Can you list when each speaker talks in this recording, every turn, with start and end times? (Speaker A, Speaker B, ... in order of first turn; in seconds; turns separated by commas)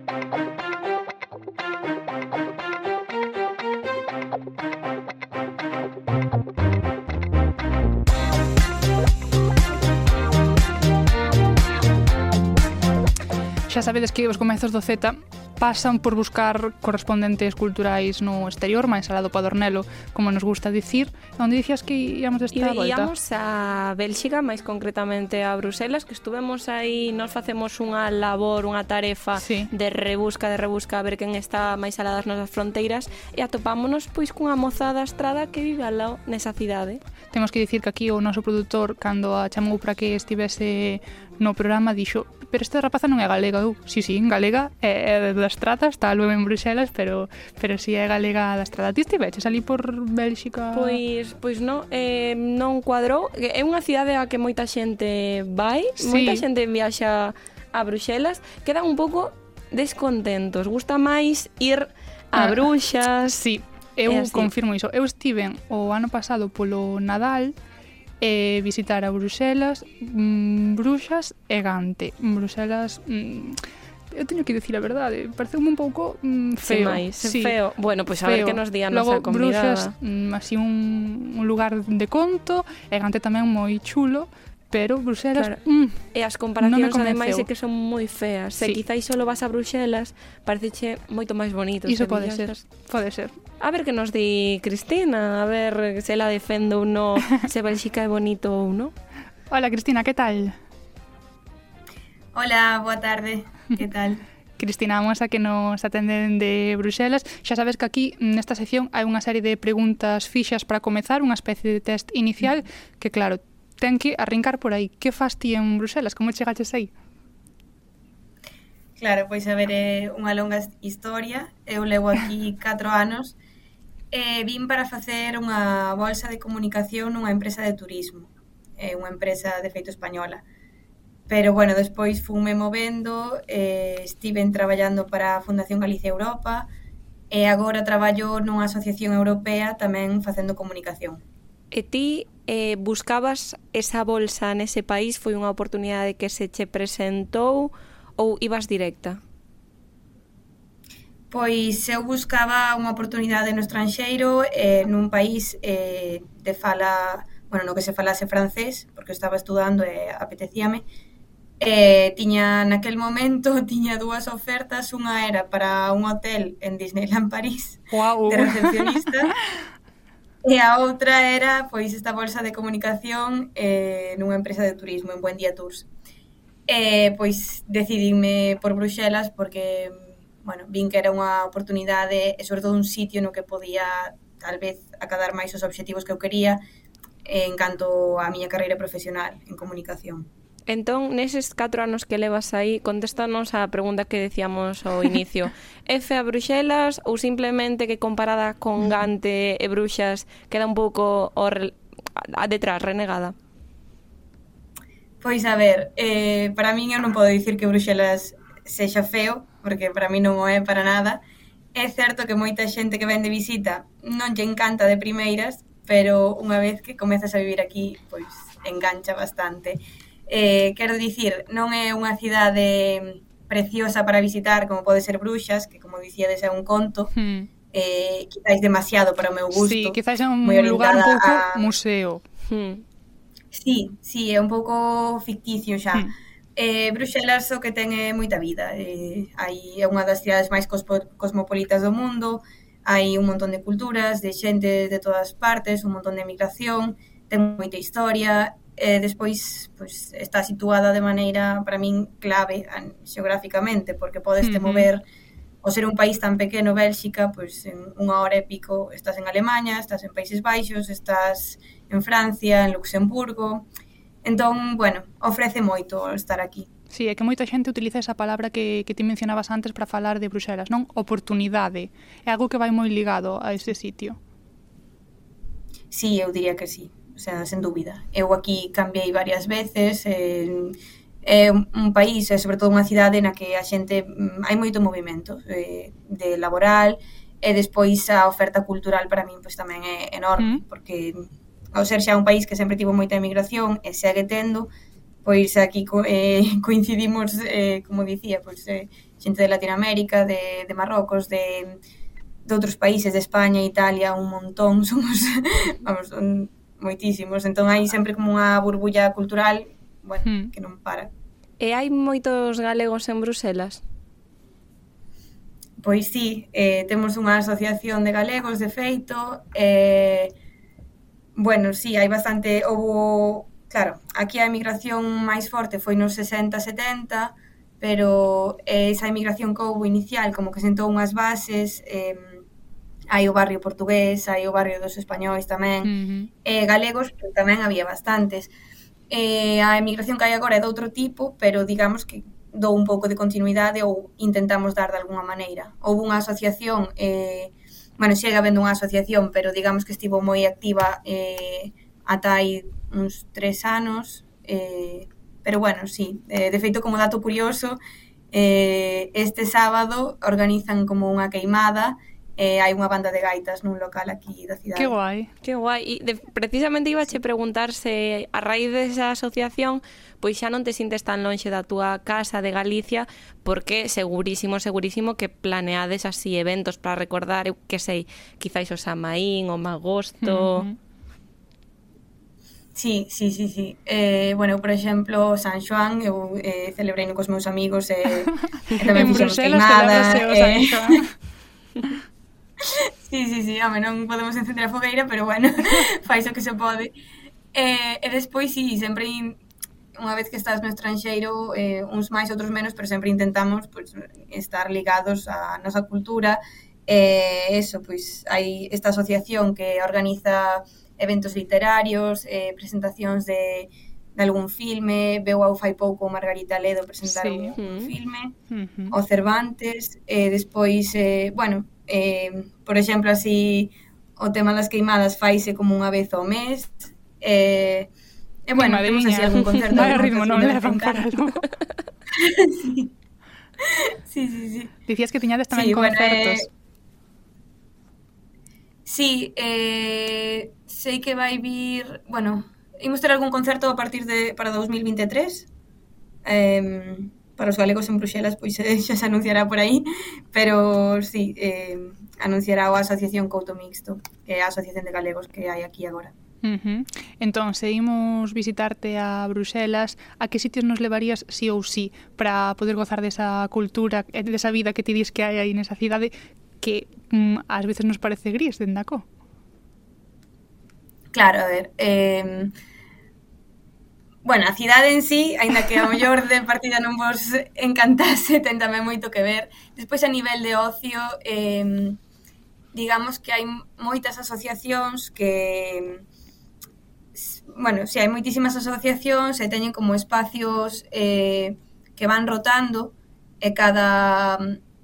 Speaker A: 13.7-23.1, Speaker B: 22.5-37.0, Speaker A: 29.4-29.7, Speaker A: 37.3-51.0, Speaker B: 50.7-63.4, Speaker A: 56.0-56.4, Speaker A: 62.3-62.7, Speaker A: 63.3-67.5, Speaker B: 64.1-64.5, Speaker A: 68.2-73.6, Speaker A: 74.1-77.6, Speaker B: 76.6-79.9, Speaker A: 78.2-86.0, Speaker B: 86.1-92.6, Speaker A: 86.6-87.5, Speaker A: 91.9-93.3, Speaker B: 93.6-98.9, Speaker A: 99.5-100.5, Speaker C: 102.3-104.2, Speaker A: 104.6-116.9, Speaker C: 119.0-123.4, Speaker C: 124.1-130.4, Speaker C: 131.3-136.7, Speaker C: 137.3-141.2, Speaker B: 141.7-149.2, Speaker C: 151.3-160.8, Speaker C: 161.6-169.3, Speaker A: 167.9-169.1, Speaker C: 170.4-175.9, Speaker C: 176.7-186.6, Speaker C: 187.2-190.3, Speaker B: 190.7-203.3, Speaker C: 205.2-211.2, Speaker C: 211.7-227.1, Speaker A: 227.1-227.5, Speaker C: 227.7-231.7, Speaker A: 229.5-232.2, Speaker B: 232.5-232.8, Speaker C: 233.5-255.0, Speaker A: 254.4-254.9, Speaker C: 255.6-263.7, Speaker C: 264.2-266.7, Speaker A: 266.9-274.2, Speaker C: 275.9-294.7, Speaker C: 295.2-301.8, Speaker C: 302.4-311.1, Speaker B: 311.6-313.8, Speaker C: 315.8-320.3, Speaker C: 321.4-332.4, Speaker C: 333.1-335.9, Speaker A: 335.8-336.3, Speaker C: 336.4-338.5, Speaker C: 339.1-357.8, Speaker C: 358.3-364.9, Speaker A: 364.7-365.3, Speaker B: 365.4-380.7, Speaker A: 380.2-380.7, Speaker C: 382.7-391.0, Speaker A: 388.9-391.1, Speaker C: 393.1-396.9, Speaker C: 397.5-399.4, Speaker C: 400.0-418.3, Speaker A: 417.1-417.6, Speaker B: 417.6-417.9, Speaker A: 418.5-418.9, Speaker C: 418.9-427.9, Speaker C: 428.4-431.0, Speaker A: 428.6-431.4, Speaker C: 432.2-432.9, Speaker C: 433.7-434.7, Speaker A: 434.9-436.4, Speaker C: 435.5-436.4, Speaker C: 438.9-445.5, Speaker C: 446.2-456.1, Speaker A: 456.4-469.1, Speaker C: 471.1-472.5, Speaker C: 474.2-482.0, Speaker C: 482.7-486.0, Speaker C: 487.1-494.6